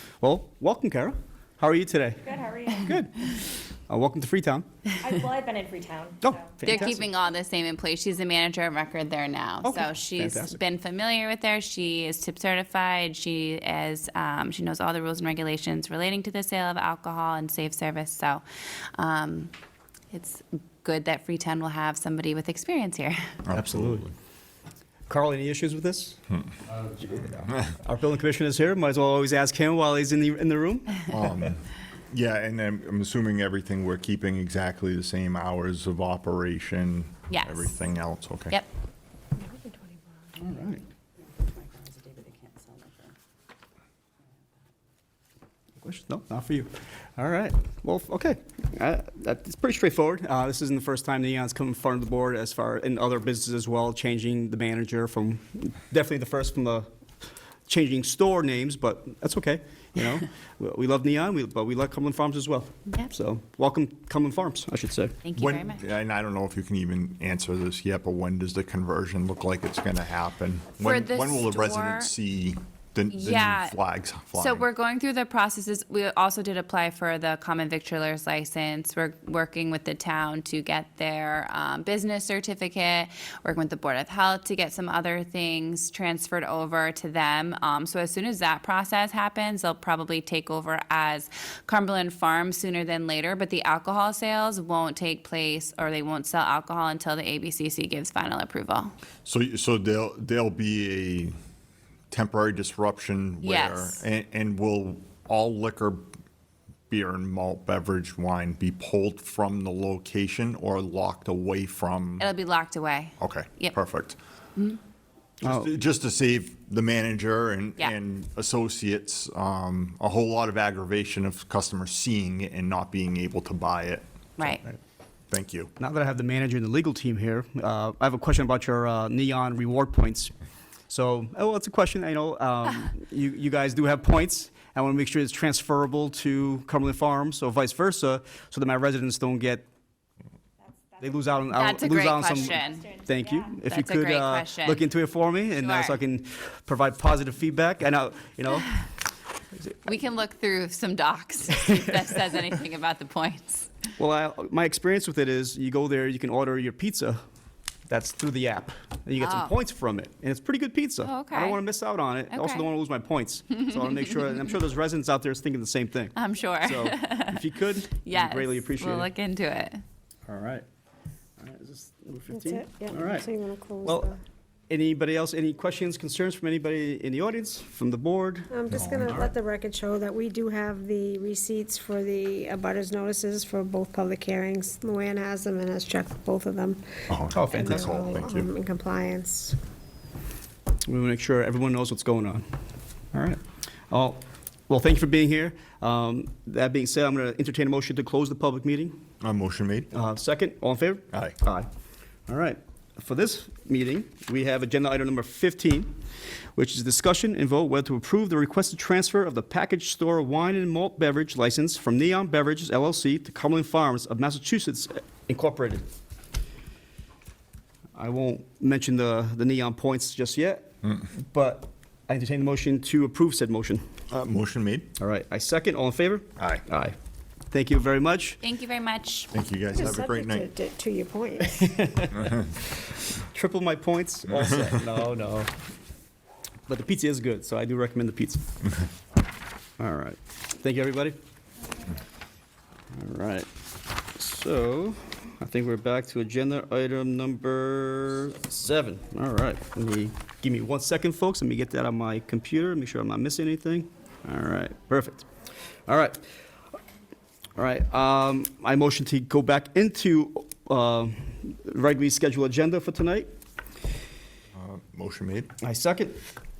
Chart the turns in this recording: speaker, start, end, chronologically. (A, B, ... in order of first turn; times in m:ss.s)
0:00.2-0:04.7 A
0:02.2-0:02.9 B
0:05.0-0:06.7 B
0:06.2-0:07.1 A
0:06.6-0:18.4 C
0:09.6-0:10.6 A
0:19.0-0:19.5 C
0:20.1-0:23.3 C
0:23.4-0:24.1 D
0:23.5-0:24.1 A
0:25.1-0:26.2 A
0:26.9-0:31.0 A
0:31.1-0:38.6 D
0:37.3-0:37.7 C
0:39.4-0:40.0 E
0:40.4-0:40.8 A
0:45.8-0:56.9 A
0:57.7-1:05.2 A
1:05.2-1:05.8 C
1:05.4-1:14.7 D
1:10.8-1:12.1 C
1:13.1-1:13.8 C
1:14.3-1:38.9 C
1:39.2-1:41.3 D
1:42.1-1:46.1 D
1:43.4-1:44.0 C
1:46.9-1:52.3 D
1:52.2-1:53.7 C
1:53.2-1:54.2 D
1:55.4-2:04.0 D
1:55.4-1:55.7 A
2:05.3-2:05.7 D
2:05.8-2:10.3 A
2:10.9-2:19.6 A
2:21.0-2:28.8 A
2:21.5-2:23.0 C
2:23.6-2:24.8 C
2:25.6-2:26.0 C
2:29.8-2:33.7 C
2:34.0-2:37.2 A
2:37.9-2:49.1 A
2:39.2-2:39.5 C
2:41.0-2:41.6 C
2:42.3-2:42.7 C
2:46.2-2:49.8 C
2:50.3-2:50.6 A
2:51.4-2:53.3 A
2:52.3-2:54.2 E
2:53.8-2:54.1 A
2:54.7-2:59.3 A
2:58.5-3:06.8 E
2:58.7-2:59.2 D
3:07.1-3:08.5 D
3:07.3-3:08.1 A
3:07.5-3:09.6 E
3:10.8-3:12.4 A
3:13.1-3:19.0 A
3:19.2-3:19.9 D
3:19.9-3:21.7 A
3:21.1-3:21.4 D
3:22.3-3:25.9 A
3:26.5-3:35.8 A
3:37.9-3:43.8 A
3:44.1-3:44.9 D
3:45.0-3:47.0 A
3:46.4-3:46.6 D
3:47.5-3:48.4 A
3:48.4-3:49.3 C
3:49.3-3:50.5 D
3:49.7-3:51.8 E
3:51.5-3:52.5 A
3:53.2-3:55.5 A
3:56.7-3:58.5 A
3:59.8-4:01.2 A
4:02.9-4:03.5 A
4:04.0-4:15.3 A
4:15.9-4:16.3 A
4:17.6-4:23.3 A
4:24.5-4:25.5 D
4:25.6-4:26.2 A